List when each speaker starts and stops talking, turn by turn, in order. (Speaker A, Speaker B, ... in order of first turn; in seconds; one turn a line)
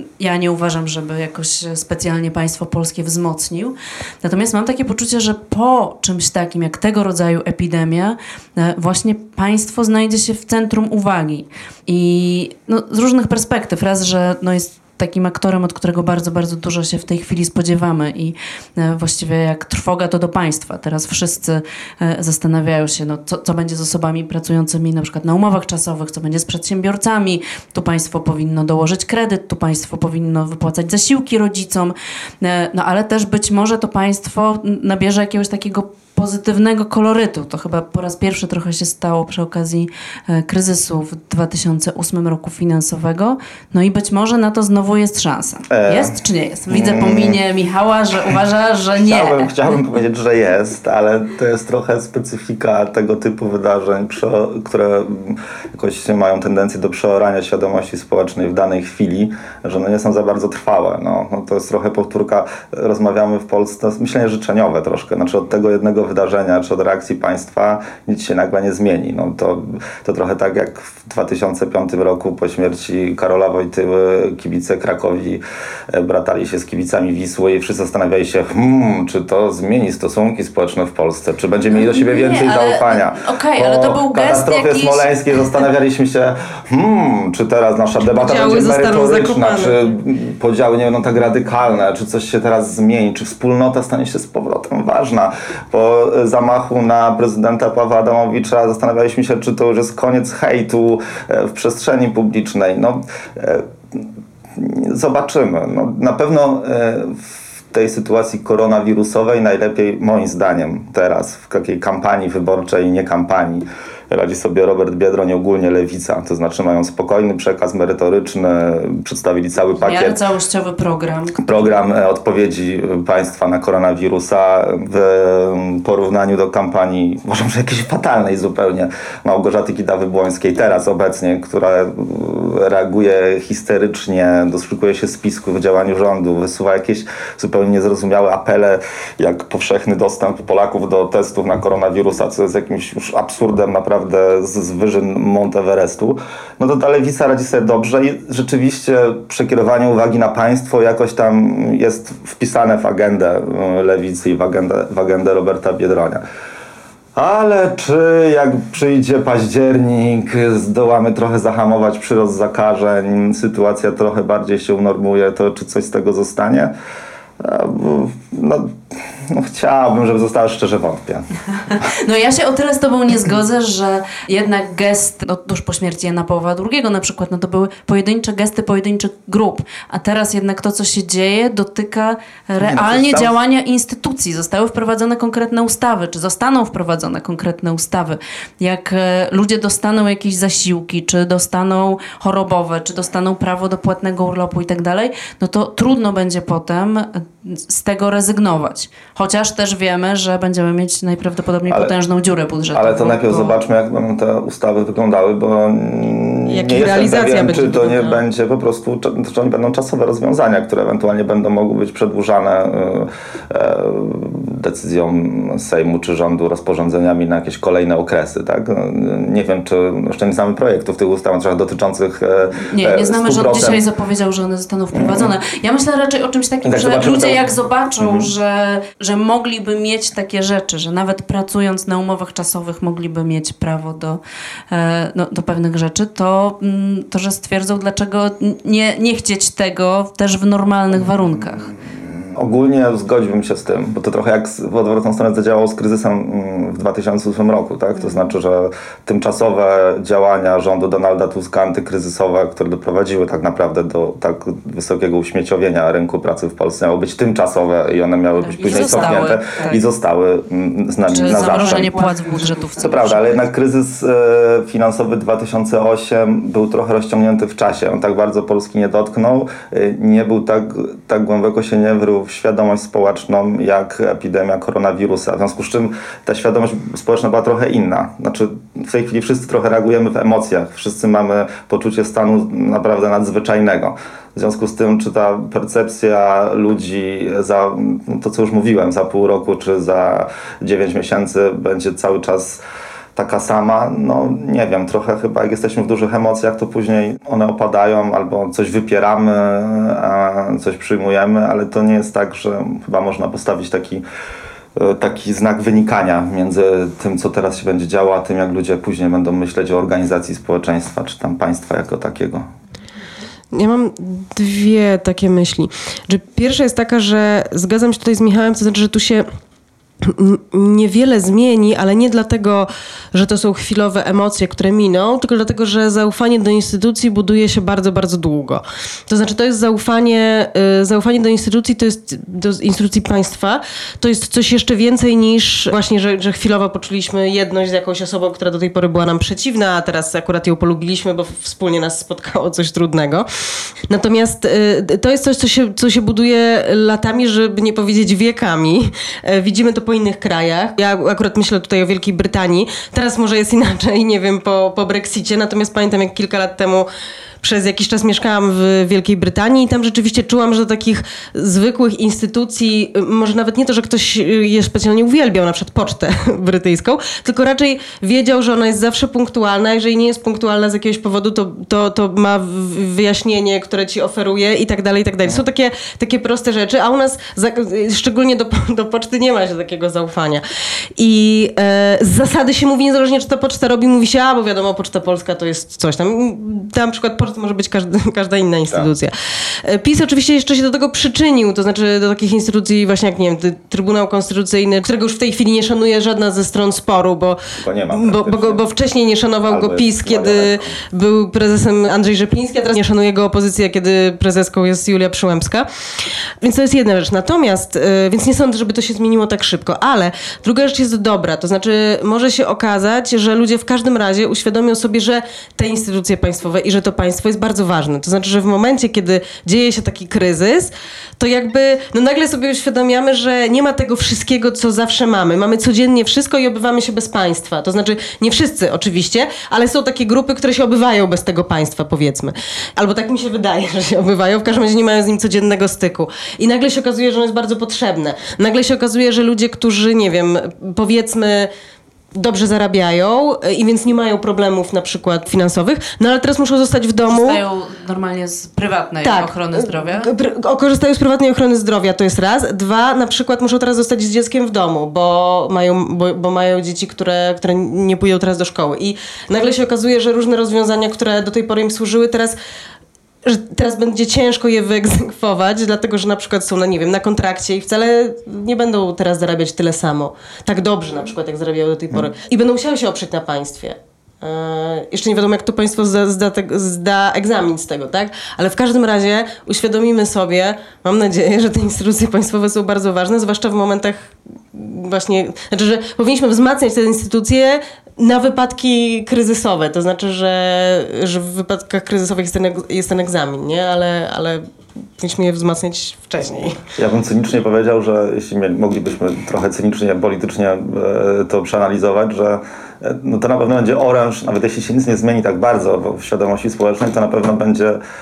Speaker A: 0.2-49.5
Speaker B: 45.7-46.1
Speaker B: 46.7-47.4
Speaker B: 49.0-120.2
Speaker A: 81.7-85.5
Speaker C: 88.1-89.8
Speaker A: 119.8-121.7
Speaker B: 121.4-156.2
Speaker B: 157.2-166.7
Speaker B: 167.4-171.3
Speaker A: 171.7-203.6
Speaker B: 182.6-183.3
Speaker B: 201.7-201.9
Speaker B: 202.7-223.8
Speaker C: 206.5-208.2
Speaker A: 222.6-234.2
Speaker B: 224.9-225.3
Speaker B: 226.6-227.5
Speaker B: 228.0-228.3
Speaker A: 234.7-241.7
Speaker B: 241.8-261.9
Speaker A: 258.5-259.8
Speaker A: 261.1-263.5
Speaker B: 262.8-292.6
Speaker B: 293.2-304.0
Speaker B: 304.8-312.4
Speaker C: 313.5-319.3
Speaker C: 320.0-343.3
Speaker C: 343.9-356.9
Speaker C: 357.4-380.4
Speaker C: 381.0-397.4
Speaker B: 397.6-398.6
Speaker C: 397.9-441.5
Speaker B: 399.5-400.8
Speaker C: 442.1-447.4
Speaker A: 447.1-450.1
Speaker C: 449.0-462.4
Speaker C: 463.2-494.4
Speaker C: 495.0-496.6
Speaker B: 496.8-507.8